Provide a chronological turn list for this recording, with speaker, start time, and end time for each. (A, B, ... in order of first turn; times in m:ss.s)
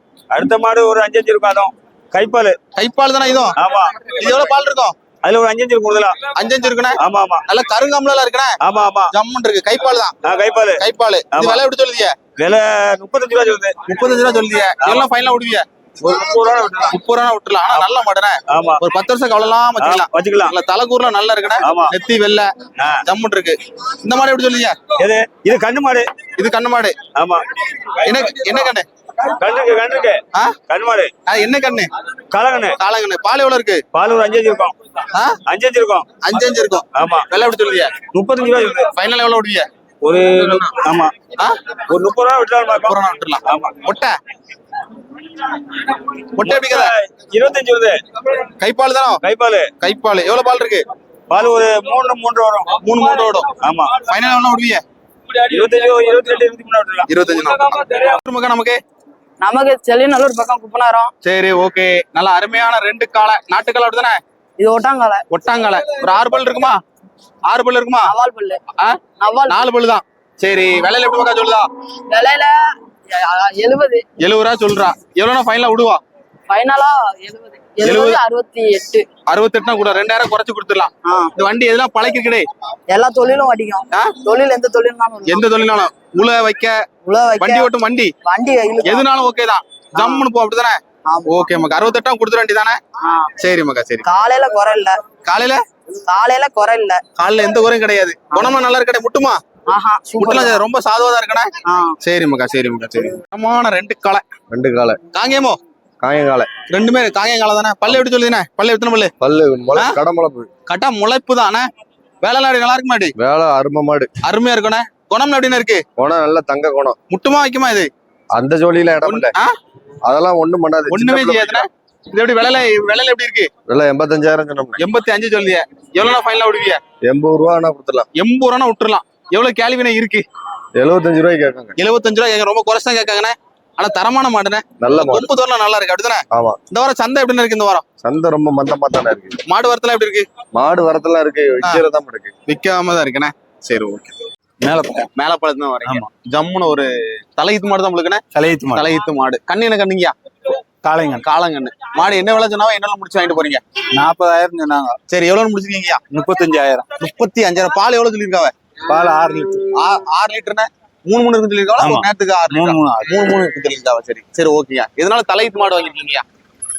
0:00.3-0:02.6 A
0:02.8-0:05.0 B
0:03.6-0:04.5 A
0:05.2-0:06.3 A
0:06.4-0:08.6 B
0:07.0-0:07.4 A
0:08.6-0:09.1 A
0:09.1-0:10.2 B
0:10.2-0:11.6 A
0:10.8-0:12.2 B
0:12.4-0:13.8 A
0:13.9-0:15.6 B
0:14.8-0:15.1 A
0:16.0-0:17.0 A
0:16.8-0:22.5 B
0:18.5-0:18.8 A
0:19.8-0:20.5 A
0:21.6-0:21.9 A
0:23.0-0:24.8 B
0:25.0-0:26.1 A
0:26.4-0:27.0 B
0:27.2-0:28.7 A
0:28.0-0:28.9 B
0:29.3-0:31.1 A
0:31.3-0:31.9 B
0:32.3-0:32.8 A
0:32.8-0:33.8 B
0:33.9-0:34.8 A
0:35.1-0:35.4 B
0:35.5-0:36.2 A
0:36.2-0:38.0 B
0:36.9-0:37.3 A
0:38.1-0:38.9 A
0:39.0-0:39.7 B
0:40.0-0:41.2 A
0:41.7-0:43.8 A
0:42.8-0:44.2 B
0:45.6-0:48.0 A
0:46.4-0:46.9 B
0:48.6-0:49.2 B
0:49.2-0:49.7 A
0:49.8-0:50.8 B
0:51.3-0:52.8 A
0:52.8-0:54.8 B
0:53.6-0:54.1 A
0:55.4-0:58.2 A
0:57.1-0:58.8 B
0:59.4-1:01.1 C
1:01.2-1:04.2 B
1:04.6-1:05.2 C
1:05.3-1:06.8 B
1:07.5-1:08.1 B
1:08.0-1:08.6 C
1:08.8-1:11.6 B
1:09.2-1:09.6 C
1:12.1-1:12.6 C
1:13.1-1:14.0 C
1:14.2-1:16.0 B
1:16.5-1:19.1 C
1:17.8-1:18.2 B
1:19.3-1:22.4 B
1:21.0-1:21.3 C
1:22.9-1:25.5 C
1:23.9-1:24.2 B
1:25.3-1:26.8 B
1:27.0-1:27.7 C
1:27.4-1:28.1 B
1:28.2-1:29.1 C
1:28.8-1:32.8 B
1:30.0-1:30.3 C
1:31.1-1:31.4 C
1:33.4-1:34.1 B
1:34.0-1:35.0 C
1:35.3-1:35.6 B
1:36.1-1:37.0 C
1:37.2-1:39.4 B
1:38.3-1:38.6 C
1:39.7-1:40.6 C
1:40.2-1:41.5 B
1:41.6-1:42.0 C
1:42.0-1:44.2 B
1:44.5-1:45.0 D
1:45.1-1:45.6 B
1:46.0-1:46.5 D
1:46.7-1:49.1 B
1:49.2-1:50.5 D
1:50.7-1:51.7 B
1:52.2-1:53.1 B
1:53.2-1:54.1 D
1:54.2-1:55.8 B
1:56.0-1:57.0 D
1:57.1-1:57.9 B
1:58.4-1:59.3 D
1:59.0-1:59.5 B
2:00.0-2:01.6 D
2:00.9-2:03.5 B
2:03.7-2:04.8 D
2:04.8-2:06.8 B
2:07.0-2:08.1 D
2:08.2-2:10.2 B
2:10.8-2:11.8 D
2:11.8-2:17.8 B
2:14.8-2:15.3 D
2:16.3-2:16.6 D
2:18.0-2:19.4 D
2:19.5-2:20.3 B
2:20.5-2:22.3 D
2:22.5-2:24.2 B
2:24.6-2:25.1 E
2:25.2-2:28.2 B
2:28.4-2:28.9 E
2:28.7-2:30.1 B
2:30.8-2:31.2 E
2:31.2-2:33.6 B
2:34.0-2:35.0 E
2:35.1-2:36.0 B
2:36.1-2:36.9 E
2:37.0-2:38.5 B
2:38.9-2:39.6 E
2:39.8-2:46.2 B
2:41.8-2:43.1 E